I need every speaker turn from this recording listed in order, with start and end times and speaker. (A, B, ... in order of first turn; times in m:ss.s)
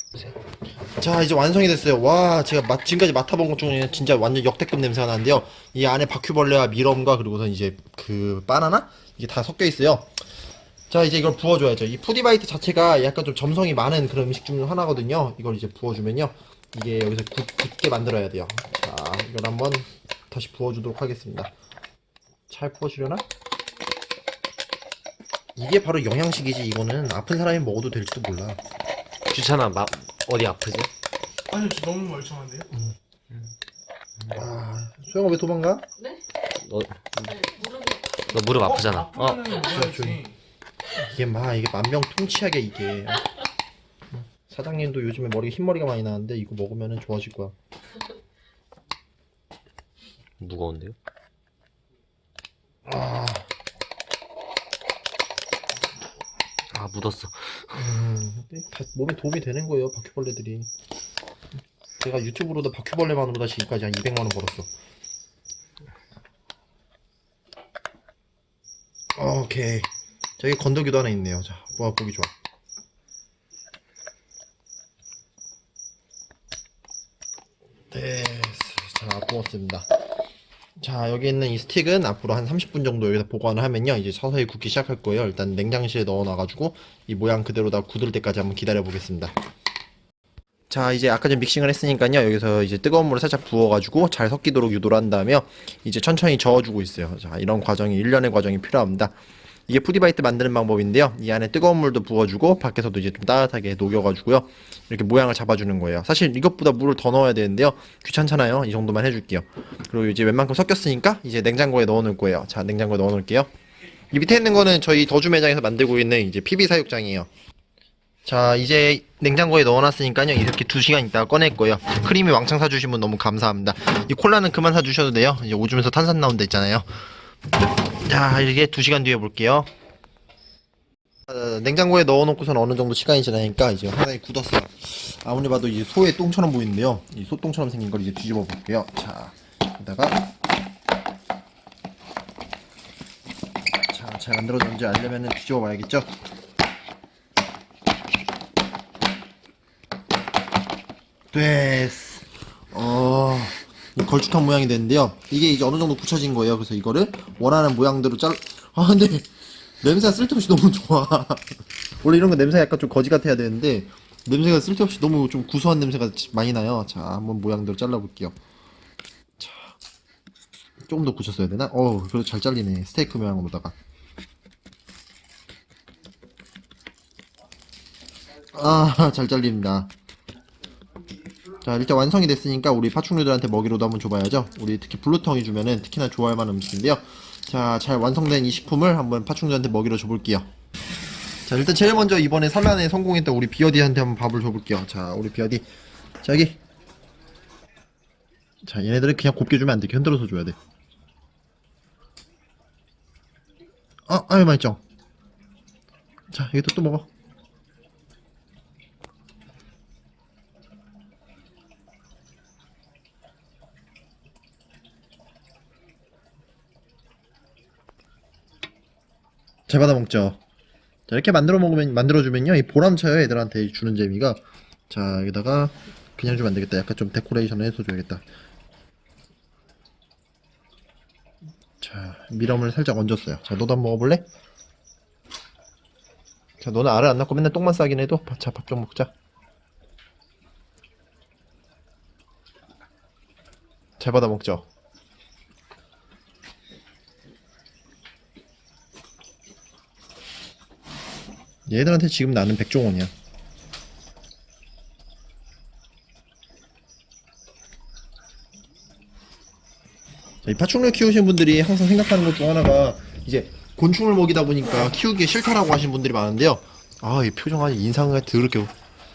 0:00.8-0:10.1 A
0:10.9-0:21.5 A
0:22.5-0:23.2 A
0:25.6-0:28.6 A
0:29.3-0:30.9 B
0:31.5-0:32.6 C
0:34.3-0:35.9 A
0:36.6-0:39.6 B
0:37.6-0:38.0 C
0:39.1-0:40.1 C
0:39.6-0:40.3 A
0:40.9-0:43.4 A
0:44.1-0:47.5 A
0:50.4-0:51.0 B
0:52.8-0:53.5 A
0:56.7-0:57.8 B
0:57.7-1:00.7 A
1:02.0-1:04.7 A
1:09.1-1:12.3 A
1:17.9-1:19.9 A
1:20.8-1:29.3 A
1:30.7-1:39.2 A
1:39.7-1:53.5 A
1:54.1-1:57.3 A
1:58.2-2:06.9 A
2:07.9-2:09.7 A
2:11.3-2:20.2 A
2:23.9-2:26.1 A
2:31.3-2:39.3 A
2:39.8-2:41.4 A
2:42.0-2:48.4 A
2:49.4-2:49.7 A
2:50.8-2:53.8 A
2:58.5-2:59.9 A
3:01.6-3:10.5 A
3:11.4-3:15.7 A
3:16.2-3:16.6 A
3:18.6-3:20.6 A
3:24.1-3:24.8 A
3:26.3-3:27.1 A
3:39.7-3:40.4 A
3:41.1-3:48.2 A
3:51.8-3:54.2 A
3:56.6-3:59.1 A
4:04.0-4:04.7 A
4:11.7-4:13.1 A
4:20.4-4:28.7 A